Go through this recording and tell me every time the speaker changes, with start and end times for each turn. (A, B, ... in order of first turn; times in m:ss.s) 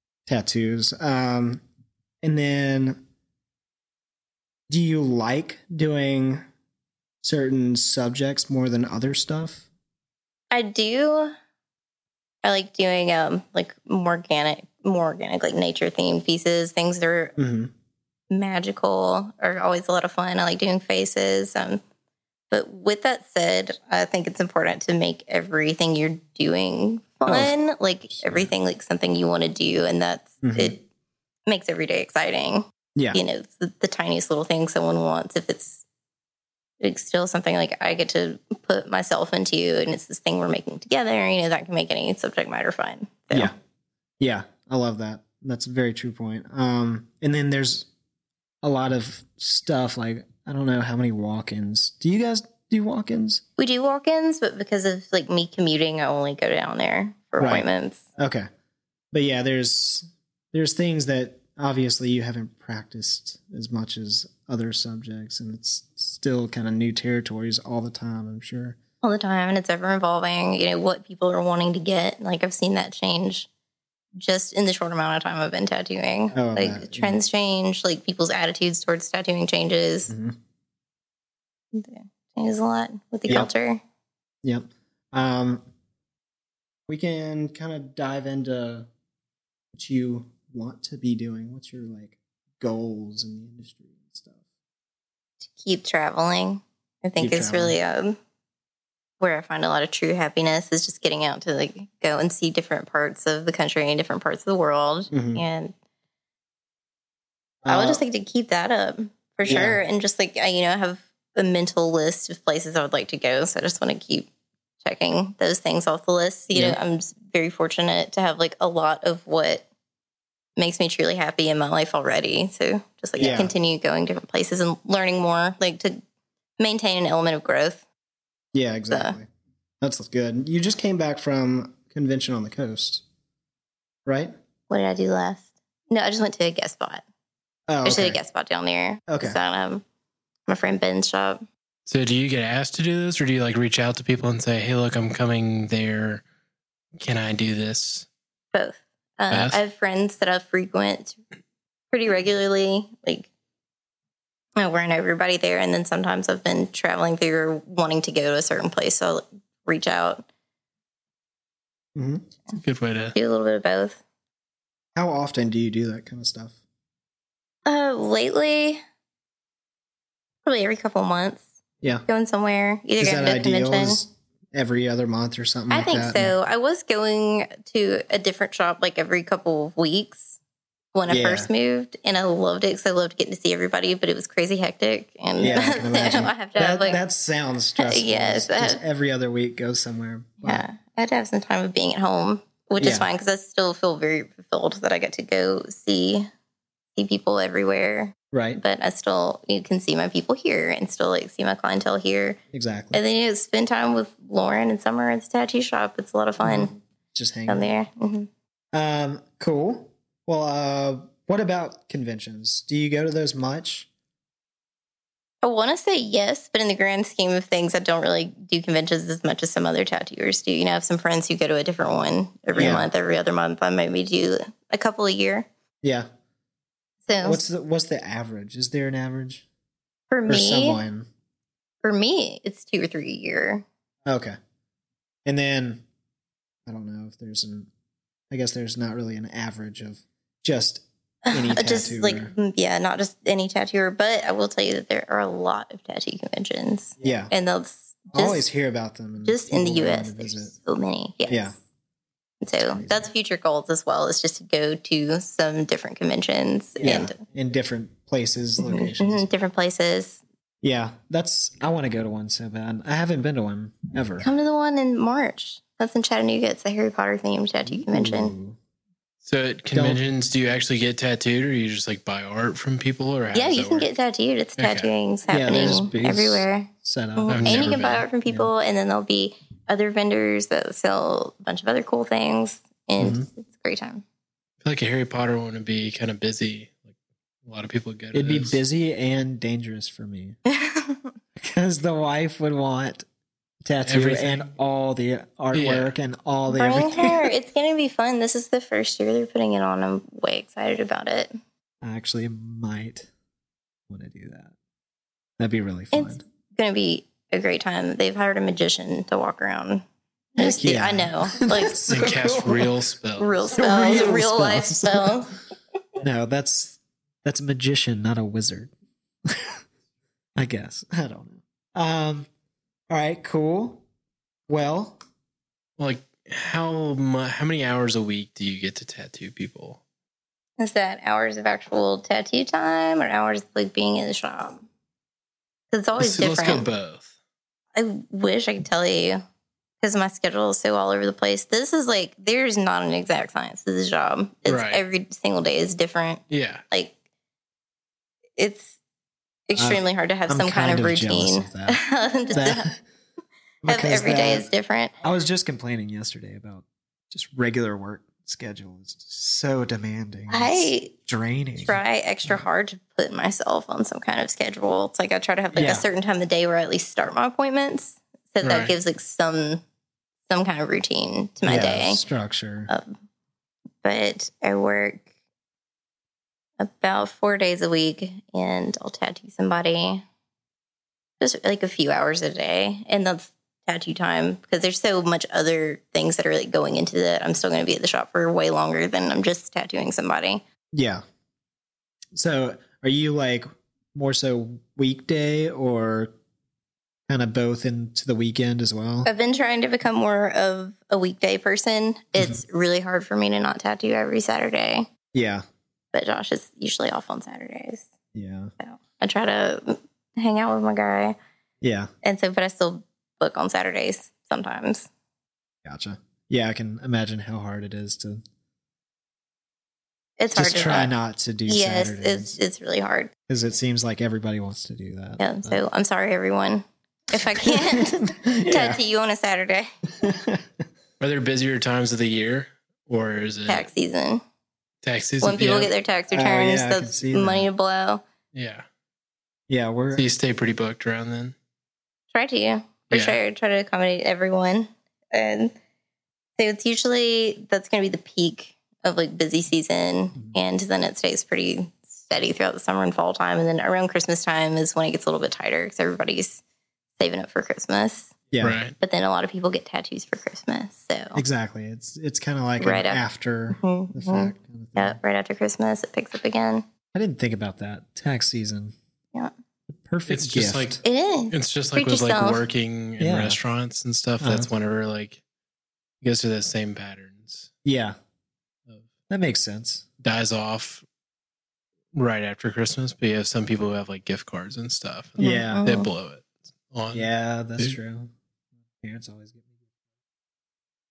0:00.2-0:01.6 A
0:02.2-0:03.0 A
0:04.7-0:06.4 A
0:07.2-0:09.6 A
0:10.5-0:11.3 B
0:12.4-0:17.3 B
0:17.4-0:17.7 A
0:18.3-0:21.8 B
0:22.5-0:30.8 B
0:27.2-0:27.5 A
0:28.1-0:28.5 A
0:30.4-0:30.7 A
0:31.5-0:35.8 B
0:32.9-0:33.2 A
0:36.8-0:43.5 B
0:44.2-0:47.9 A
0:48.6-0:53.4 A
0:53.6-0:58.0 B
0:57.4-0:57.6 A
0:58.2-0:58.5 A
0:59.1-1:08.8 A
1:09.0-1:13.5 B
1:14.2-1:20.1 B
1:16.3-1:17.2 A
1:20.1-1:20.4 A
1:21.7-1:23.8 B
1:24.4-1:25.6 A
1:26.9-1:28.9 A
1:29.7-1:34.4 A
1:35.5-1:38.2 B
1:37.2-1:37.8 A
1:39.2-1:45.7 B
1:45.1-1:45.4 A
1:47.6-1:48.0 A
1:47.7-1:54.3 B
1:49.4-1:49.8 A
1:54.8-1:59.6 B
1:56.5-1:56.8 A
2:00.6-2:06.0 B
2:03.2-2:03.5 A
2:06.6-2:07.8 B
2:08.5-2:09.3 A
2:08.9-2:09.2 B
2:09.8-2:13.0 A
2:14.0-2:14.3 A
2:14.7-2:17.0 B
2:17.7-2:18.2 A
2:17.8-2:19.8 B
2:19.1-2:19.4 A
2:20.5-2:21.4 B
2:21.8-2:26.2 C
2:27.0-2:28.1 C
2:28.5-2:31.2 B
2:29.3-2:29.6 C
2:31.9-2:33.3 B
2:34.6-2:40.2 B
2:41.9-2:42.2 A
2:42.6-2:43.2 C
2:43.1-2:44.0 B
2:45.0-2:46.5 A
2:47.6-2:48.8 B
2:50.4-2:51.4 B
2:52.1-2:54.0 B
2:53.0-2:56.3 A
2:55.7-3:00.4 B
3:00.9-3:07.0 B
3:01.1-3:01.5 A
3:05.4-3:10.6 A
3:07.8-3:08.8 B
3:10.4-3:16.3 B
3:12.8-3:13.1 A
3:17.0-3:22.4 B
3:18.3-3:18.6 A
3:22.5-3:23.0 A
3:22.9-3:26.8 B
3:26.4-3:27.7 A
3:27.5-3:28.3 B
3:28.7-3:33.9 A
3:35.4-3:45.5 B
3:42.5-3:42.9 A
3:47.1-3:47.4 B
3:47.2-3:49.4 A
3:50.1-3:50.8 B
3:50.3-3:51.1 A
3:51.8-3:53.6 B
3:54.0-3:54.4 A
3:55.2-3:55.8 A
3:56.6-3:57.7 A
3:58.3-4:02.3 A
4:01.2-4:08.4 B
4:07.0-4:07.3 A
4:08.1-4:10.5 A
4:09.2-4:11.6 B
4:11.3-4:11.6 A
4:12.4-4:17.2 B
4:12.6-4:13.0 A
4:16.8-4:19.3 A
4:18.6-4:20.2 B
4:20.6-4:24.3 A
4:24.2-4:28.3 B
4:27.6-4:28.6 A
4:29.2-4:33.9 C
4:29.7-4:30.0 A
4:33.3-4:44.0 B
4:34.6-4:34.9 C
4:35.3-4:38.5 A
4:37.3-4:38.0 C
4:43.0-4:43.3 A
4:44.6-4:46.9 C
4:47.4-4:48.6 C
4:48.1-4:50.4 A
4:50.4-4:51.1 B
4:51.4-4:53.0 A
4:53.6-4:57.3 A
4:53.8-4:54.5 C
4:55.5-4:55.9 C
4:56.5-5:01.3 B
5:01.8-5:03.1 A
5:03.9-5:04.5 A
5:05.4-5:06.2 A
5:05.9-5:09.8 B
5:10.4-5:11.8 B
5:10.4-5:12.7 A
5:11.9-5:13.4 C
5:13.2-5:15.3 B
5:13.5-5:15.2 A
5:16.0-5:18.7 A
5:19.2-5:19.6 A
5:20.4-5:22.3 A
5:22.9-5:23.8 A
5:24.5-5:25.0 A
5:25.8-5:29.8 C
5:30.6-5:34.6 B
5:35.7-5:36.6 B
5:36.0-5:37.1 C
5:37.7-5:39.2 B
5:39.8-5:46.9 B
5:44.4-5:44.8 C
5:46.3-5:46.6 C
5:48.4-5:48.7 B
5:49.5-5:52.7 B
5:49.6-5:51.8 A
5:52.3-5:52.8 A
5:53.6-5:54.5 A
5:53.7-5:54.9 B
5:55.0-6:01.8 A
6:00.3-6:00.9 B
6:01.6-6:09.6 B
6:05.5-6:05.9 A
6:08.4-6:08.7 C
6:10.3-6:12.0 B
6:11.4-6:12.7 A
6:13.8-6:15.0 B
6:16.6-6:20.0 B
6:21.2-6:30.4 B
6:30.7-6:31.0 A
6:32.1-6:36.1 A
6:37.1-6:39.1 A
6:39.0-6:44.9 B
6:45.1-6:45.4 A
6:45.9-6:47.9 B
6:48.1-6:48.5 A
6:48.6-6:51.2 B
6:51.6-6:51.9 A
6:52.0-6:54.9 B
6:55.6-6:58.2 A
7:00.2-7:00.9 B
7:00.3-7:02.4 A
7:01.5-7:03.1 B
7:03.3-7:05.6 A
7:05.2-7:09.7 B
7:07.4-7:08.8 A
7:10.0-7:10.5 A
7:11.0-7:13.7 C
7:13.5-7:14.2 B
7:14.8-7:15.7 C
7:15.2-7:18.0 B
7:16.1-7:17.5 A
7:18.3-7:18.6 C
7:19.5-7:20.0 A
7:19.9-7:21.3 C
7:22.1-7:25.5 B
7:22.9-7:23.2 C
7:26.4-7:36.4 B
7:37.0-7:38.1 B
7:38.3-7:38.6 A
7:38.4-7:38.8 C
7:38.8-7:41.2 B
7:41.1-7:45.0 A
7:42.6-7:43.0 B
7:43.5-7:46.6 B
7:46.9-7:48.7 A
7:49.7-7:50.8 A
7:50.1-7:55.2 C
7:50.8-7:52.4 B
7:53.0-7:53.4 A
7:54.2-7:54.5 A
7:56.0-7:57.5 C
7:57.6-7:57.9 A
7:59.1-7:59.8 A
8:00.0-8:00.8 C
8:01.9-8:07.8 C
8:05.2-8:05.6 A
8:05.2-8:05.9 B
8:06.9-8:08.1 A
8:08.8-8:09.4 A